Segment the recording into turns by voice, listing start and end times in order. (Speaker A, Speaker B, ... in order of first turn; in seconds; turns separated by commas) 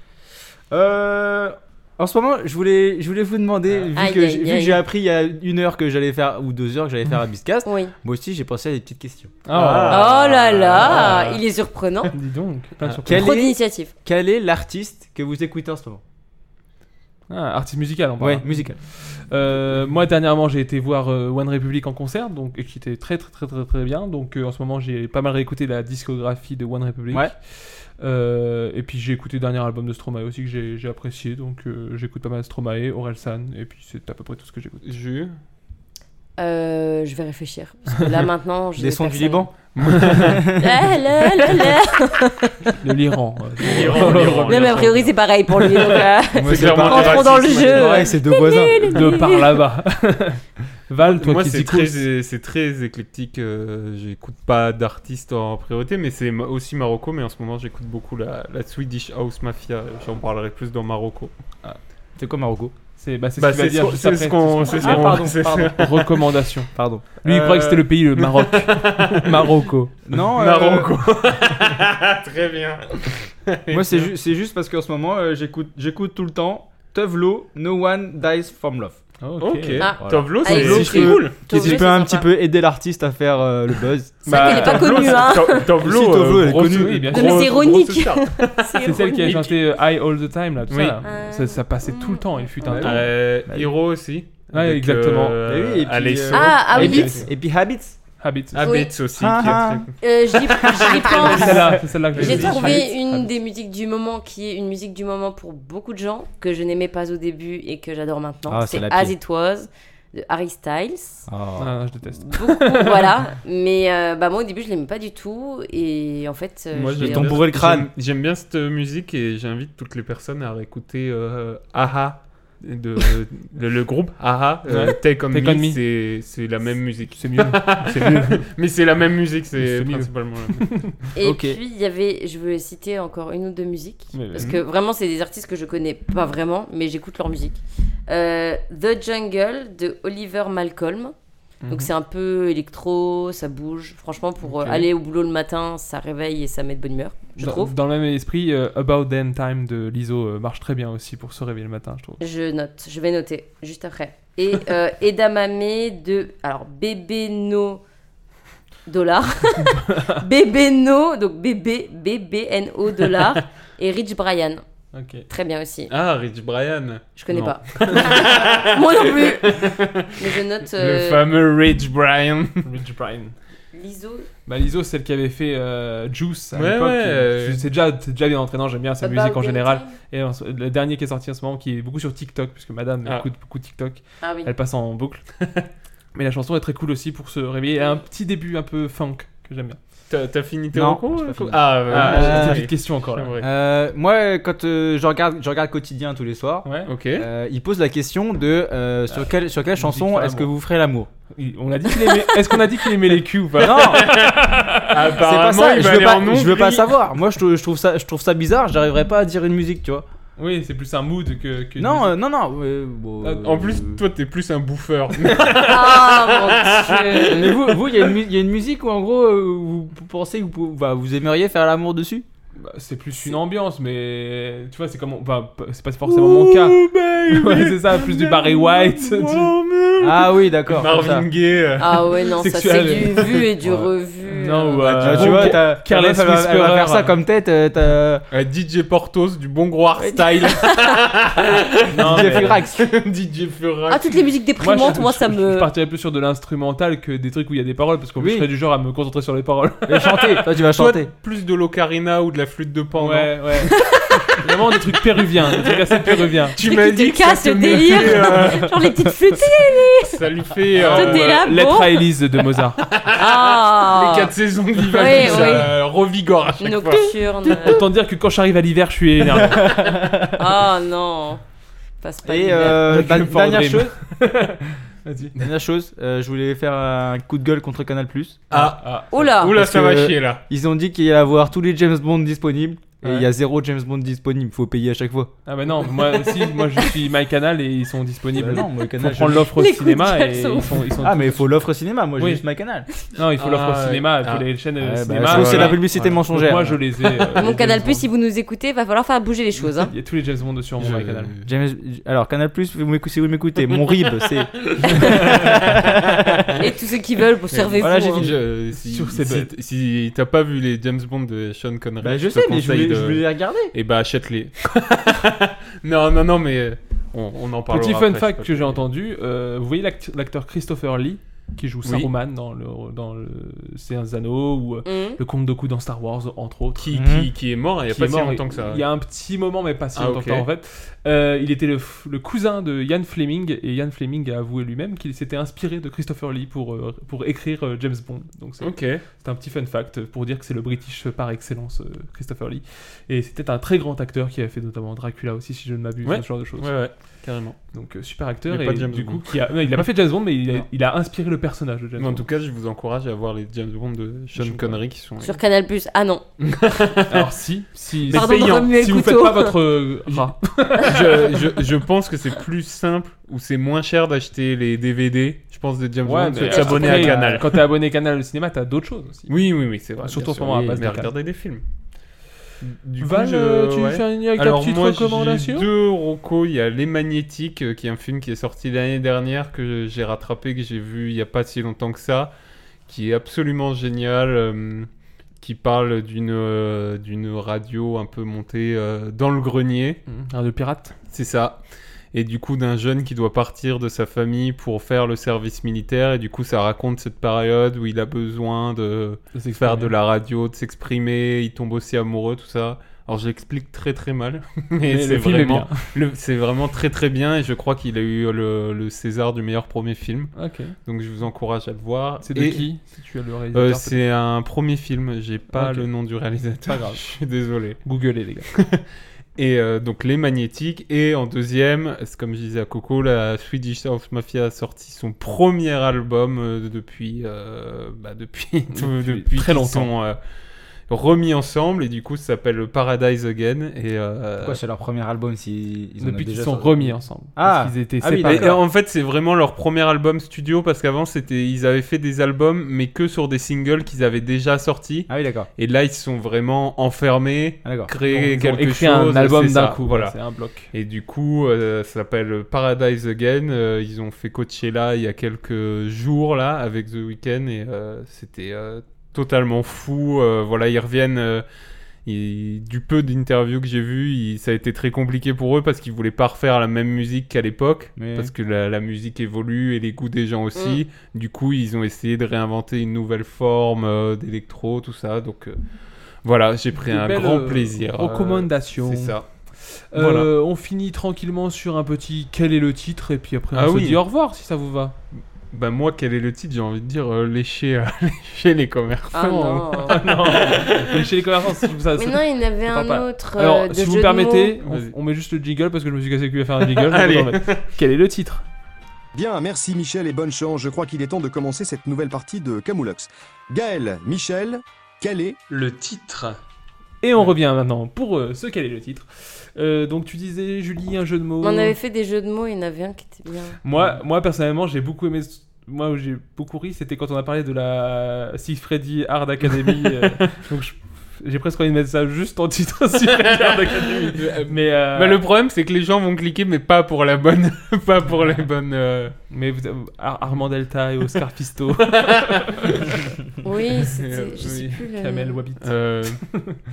Speaker A: 0.7-10.0, Speaker B: 4.0-4.8, Speaker B: 7.7-7.9, Speaker C: 9.5-10.0, Speaker D: 9.5-11.4, Speaker B: 9.9-12.1, Speaker C: 10.9-11.2, Speaker C: 12.1-13.3, Speaker A: 13.0-16.0, Speaker B: 13.1-13.9, Speaker C: 17.3-34.9, Speaker A: 18.2-18.8, Speaker D: 34.8-35.3, Speaker B: 36.4-39.5, Speaker A: 38.8-40.8, Speaker D: 39.8-40.5, Speaker B: 40.6-42.7, Speaker C: 42.8-44.9, Speaker D: 43.6-45.2, Speaker B: 43.9-49.6, Speaker D: 45.9-48.1, Speaker A: 46.3-49.1, Speaker C: 48.9-52.0, Speaker D: 51.0-61.3, Speaker A: 62.2-62.7, Speaker C: 63.0-66.7, Speaker D: 63.4-66.2, Speaker A: 64.7-65.8, Speaker A: 66.8-67.8, Speaker C: 67.2-69.9, Speaker D: 67.4-69.5, Speaker A: 70.0-70.9, Speaker D: 70.2-74.1, Speaker A: 73.7-79.0, Speaker C: 79.2-79.9, Speaker D: 79.4-81.9, Speaker B: 79.8-82.3, Speaker A: 80.0-87.1, Speaker D: 84.2-89.3, Speaker C: 84.3-85.2, Speaker B: 84.3-85.7, Speaker C: 86.6-87.8, Speaker B: 87.1-89.6, Speaker C: 88.8-93.0, Speaker D: 90.7-91.0, Speaker B: 91.0-93.0, Speaker A: 92.7-93.7, Speaker D: 92.8-97.3, Speaker C: 94.5-95.4, Speaker A: 95.4-98.0, Speaker B: 96.3-97.2, Speaker C: 96.8-97.3, Speaker C: 98.2-98.7, Speaker D: 98.5-100.0, Speaker B: 98.6-98.9, Speaker A: 99.1-99.9, Speaker B: 100.0-111.3, Speaker A: 100.5-102.8, Speaker C: 101.1-103.3, Speaker D: 102.2-102.7, Speaker A: 108.5-109.2, Speaker A: 111.3-111.7, Speaker C: 111.6-113.1, Speaker B: 112.2-117.4, Speaker D: 116.7-130.8, Speaker A: 117.0-117.9, Speaker C: 124.7-125.8, Speaker C: 127.2-128.4, Speaker C: 129.6-131.0, Speaker B: 131.2-141.1, Speaker A: 131.2-131.6, Speaker C: 134.1-134.6, Speaker C: 141.6-141.9, Speaker B: 141.7-147.7, Speaker C: 144.5-144.8, Speaker C: 147.4-152.2, Speaker B: 152.2-157.8, Speaker B: 158.9-164.6, Speaker C: 164.9-165.3, Speaker B: 165.3-165.9, Speaker D: 165.9-172.7, Speaker B: 167.2-171.2, Speaker C: 172.6-173.4, Speaker B: 173.7-174.3, Speaker C: 174.5-185.2, Speaker D: 176.5-177.6, Speaker B: 179.0-179.9, Speaker B: 184.2-184.5, Speaker C: 186.2-189.8, Speaker D: 190.1-193.5, Speaker A: 190.7-192.7, Speaker C: 191.9-193.3, Speaker A: 193.4-201.1, Speaker C: 196.7-196.9, Speaker D: 196.9-197.3, Speaker C: 199.7-200.5, Speaker C: 201.3-205.0, Speaker A: 203.6-204.2, Speaker D: 203.9-206.9, Speaker A: 205.2-210.1, Speaker C: 210.4-212.2, Speaker A: 211.8-214.0, Speaker D: 213.2-217.6, Speaker B: 215.6-217.4, Speaker A: 217.2-222.2, Speaker C: 222.6-230.3, Speaker A: 226.1-231.3, Speaker D: 230.7-232.2, Speaker B: 231.8-235.1, Speaker C: 232.3-233.5, Speaker C: 234.2-237.1, Speaker A: 234.8-238.2, Speaker D: 235.1-235.4, Speaker D: 238.3-244.3, Speaker A: 240.0-242.9, Speaker C: 241.9-242.6, Speaker B: 243.9-245.7, Speaker C: 244.6-250.4, Speaker A: 248.2-248.5, Speaker A: 249.9-251.1, Speaker D: 250.7-253.7, Speaker C: 253.0-253.8, Speaker B: 253.7-254.4, Speaker C: 254.4-256.6, Speaker D: 256.5-258.9, Speaker B: 256.6-260.2, Speaker D: 260.1-261.3, Speaker C: 260.8-262.8, Speaker B: 260.8-262.1, Speaker D: 262.8-267.2, Speaker B: 263.1-265.7, Speaker C: 265.2-265.6, Speaker B: 266.6-267.9, Speaker C: 267.6-269.9, Speaker A: 269.5-270.3, Speaker B: 270.2-271.4, Speaker B: 272.0-273.1, Speaker A: 272.2-273.9, Speaker C: 272.9-275.4, Speaker A: 275.4-278.4, Speaker C: 278.5-279.2, Speaker D: 278.5-280.4, Speaker B: 279.1-279.6, Speaker A: 279.5-285.3, Speaker C: 283.0-283.3, Speaker C: 285.5-291.6, Speaker A: 288.4-289.5, Speaker B: 289.4-290.9, Speaker A: 291.0-292.9, Speaker C: 292.2-292.4, Speaker C: 293.1-298.1, Speaker D: 293.4-294.5, Speaker A: 294.8-296.9, Speaker D: 295.3-296.2, Speaker B: 297.4-299.9, Speaker C: 299.8-301.2, Speaker D: 300.8-301.5, Speaker A: 300.8-306.5, Speaker B: 306.6-308.3, Speaker D: 307.5-318.8, Speaker A: 307.8-308.4, Speaker C: 308.8-309.5, Speaker A: 312.0-313.7, Speaker C: 317.7-326.8, Speaker D: 321.9-322.1, Speaker B: 324.9-325.2, Speaker D: 326.8-328.8, Speaker A: 326.9-327.3, Speaker C: 327.9-346.7, Speaker D: 330.0-330.5, Speaker D: 338.6-339.0, Speaker D: 346.1-347.6, Speaker C: 347.7-352.2, Speaker D: 348.5-349.3, Speaker D: 352.0-355.4, Speaker C: 354.4-354.8, Speaker B: 355.2-356.2, Speaker D: 356.4-357.2, Speaker C: 357.1-361.4, Speaker B: 358.1-359.6, Speaker D: 358.1-358.7, Speaker D: 360.8-367.6, Speaker C: 366.1-369.4, Speaker B: 366.4-367.2, Speaker D: 369.3-371.6, Speaker C: 370.0-371.1, Speaker D: 372.6-382.3, Speaker C: 373.0-375.7, Speaker D: 382.9-384.9, Speaker D: 385.4-390.0, Speaker C: 390.1-390.9, Speaker D: 391.1-391.6, Speaker D: 392.1-412.7, Speaker C: 399.4-399.9, Speaker C: 404.9-405.9, Speaker C: 410.4-410.8, Speaker C: 412.2-414.0, Speaker D: 413.5-417.9, Speaker C: 415.5-415.9, Speaker C: 416.6-417.1, Speaker C: 417.8-418.5, Speaker D: 418.5-418.8, Speaker D: 419.4-430.2, Speaker C: 428.7-429.9, Speaker D: 430.9-434.6, Speaker A: 434.4-438.6, Speaker C: 436.0-438.6, Speaker D: 438.2-450.2, Speaker A: 445.1-445.5, Speaker A: 447.6-447.9, Speaker C: 448.1-450.7, Speaker D: 450.7-461.4, Speaker D: 462.1-475.6, Speaker A: 468.0-468.3, Speaker B: 470.6-470.8, Speaker D: 476.2-479.2, Speaker C: 476.7-479.2, Speaker C: 479.9-485.0, Speaker D: 479.9-480.3, Speaker D: 483.5-484.0, Speaker D: 485.5-491.1, Speaker B: 489.1-490.1, Speaker C: 489.9-498.4, Speaker B: 491.9-494.6, Speaker D: 494.6-494.9, Speaker D: 496.7-497.7, Speaker E: 499.1-505.4, Speaker D: 505.5-506.4, Speaker C: 507.0-511.8, Speaker B: 511.4-513.6, Speaker C: 513.6-525.2, Speaker D: 523.1-529.1, Speaker C: 529.3-533.0, Speaker D: 532.0-532.8, Speaker B: 533.4-535.4, Speaker D: 533.8-534.8, Speaker C: 535.0-536.6, Speaker D: 535.6-536.2